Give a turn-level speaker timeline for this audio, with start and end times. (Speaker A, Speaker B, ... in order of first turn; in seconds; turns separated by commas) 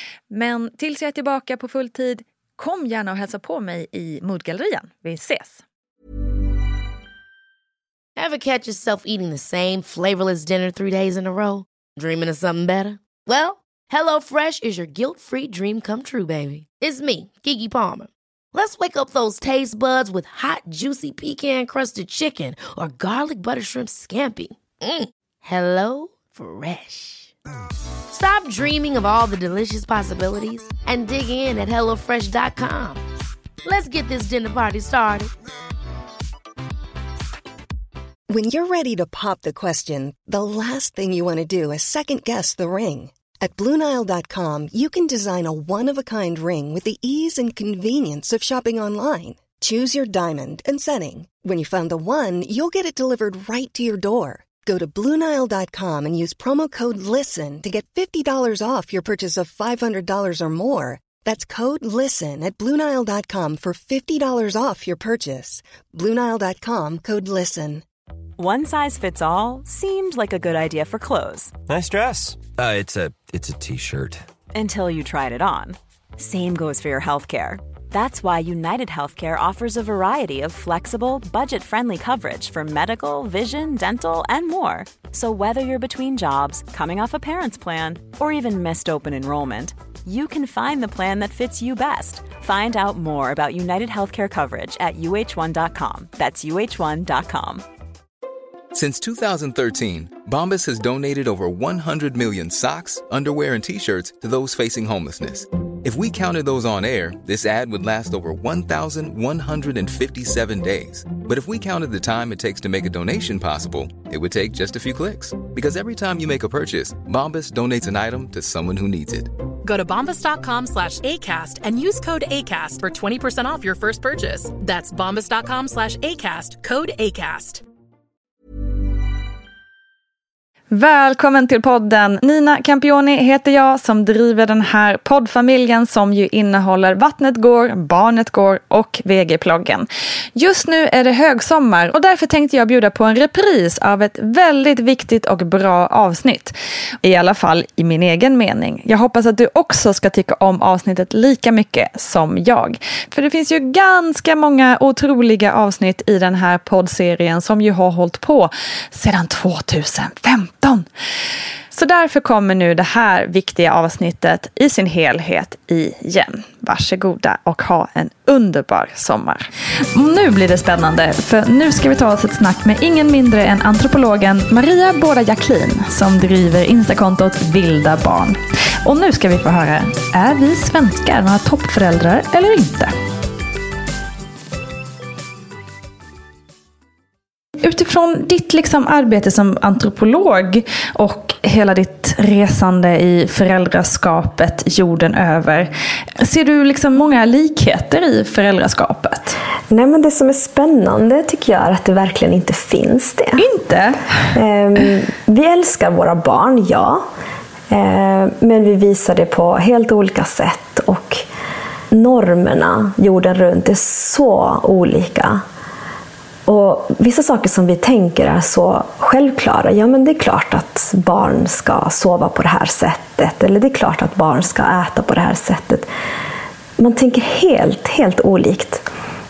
Speaker A: 0.3-5.6, Speaker B: 8.2-27.3, Speaker B: 28.1-33.0, Speaker B: 33.6-35.3, Speaker C: 38.3-67.8, Speaker D: 68.4-71.5, Speaker E: 71.7-74.2, Speaker D: 74.5-97.6, Speaker F: 98.7-119.3, Speaker G: 119.6-127.6, Speaker A: 130.7-160.9, Speaker A: 161.7-182.9, Speaker A: 187.6-199.4, Speaker H: 199.7-203.4, Speaker A: 203.4-204.3, Speaker H: 204.3-207.0, Speaker H: 207.7-211.2, Speaker H: 211.9-215.4, Speaker H: 216.4-225.9, Speaker H: 226.8-228.8